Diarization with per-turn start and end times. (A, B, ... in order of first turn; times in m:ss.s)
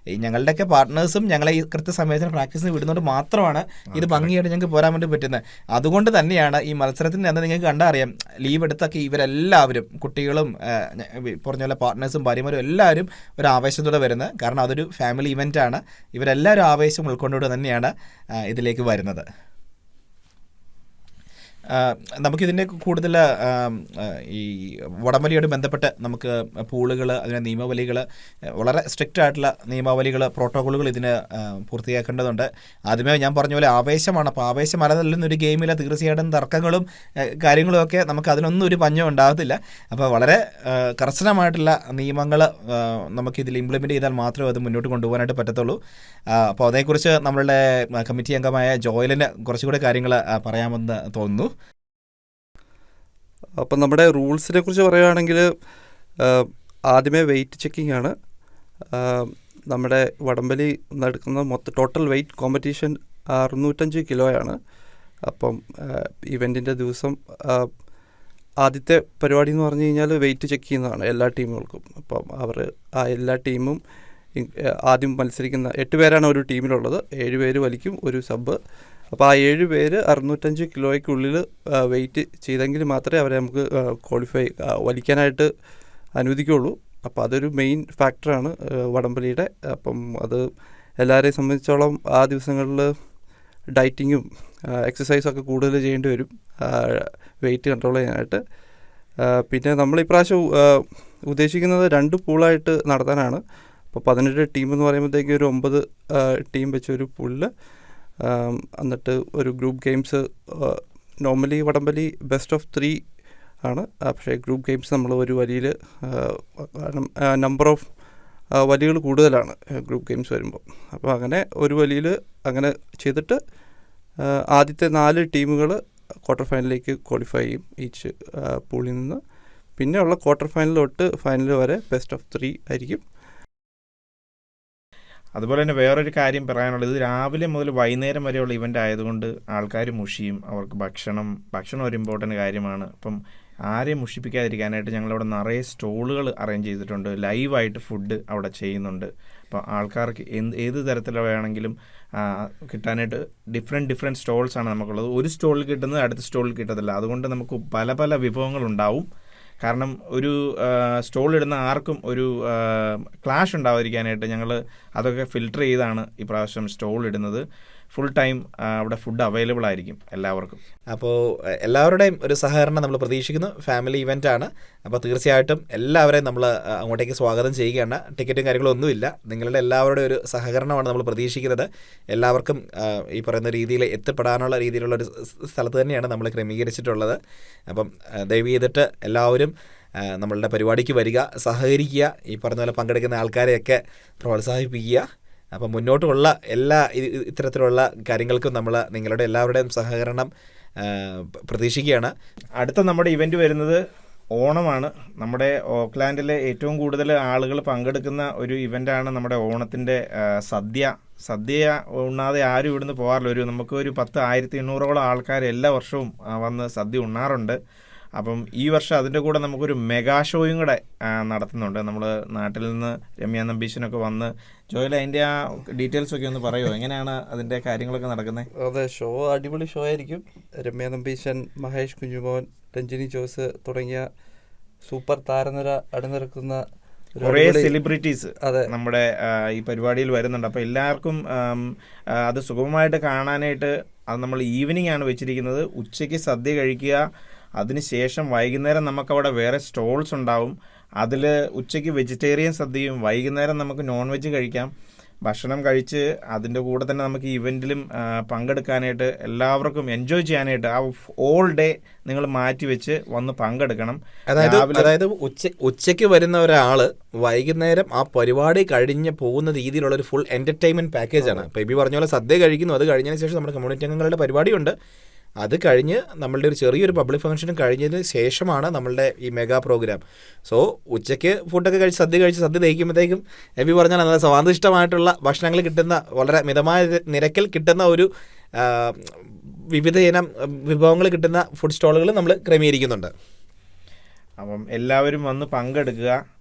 0:00.2-0:19.2 A
0:03.9-0:04.3 B
0:21.7-0:28.0 A
0:28.6-0:45.8 A
0:46.3-0:51.5 A
0:53.6-0:55.5 C
0:56.2-0:58.1 C
0:58.9-1:04.6 C
1:05.3-1:07.7 C
1:08.6-1:13.8 C
1:14.4-1:18.6 C
1:19.1-1:25.5 C
1:26.2-1:30.4 C
1:31.0-1:32.9 C
1:33.7-1:38.4 C
1:39.3-1:43.4 C
1:43.9-1:47.5 C
1:48.2-1:53.0 C
1:53.6-1:57.9 C
1:58.6-2:03.4 C
2:04.3-2:09.2 C
2:09.8-2:13.0 C
2:15.4-2:23.2 B
2:23.7-2:39.1 B
2:39.6-2:50.6 B
2:50.9-3:07.2 A
3:07.7-3:20.3 A
3:20.8-3:22.1 A
3:22.6-3:23.8 B
3:24.4-3:37.6 B
3:38.2-3:48.5 B
3:48.6-3:54.0 C
3:54.8-3:56.6 C
3:57.2-3:57.8 C
3:57.2-4:07.0 B
3:58.4-3:58.7 C
4:07.6-4:14.7 B
4:15.3-4:25.0 B
4:24.3-4:34.8 A
4:35.4-4:49.2 A
4:49.7-4:53.1 A
4:54.4-4:56.2 B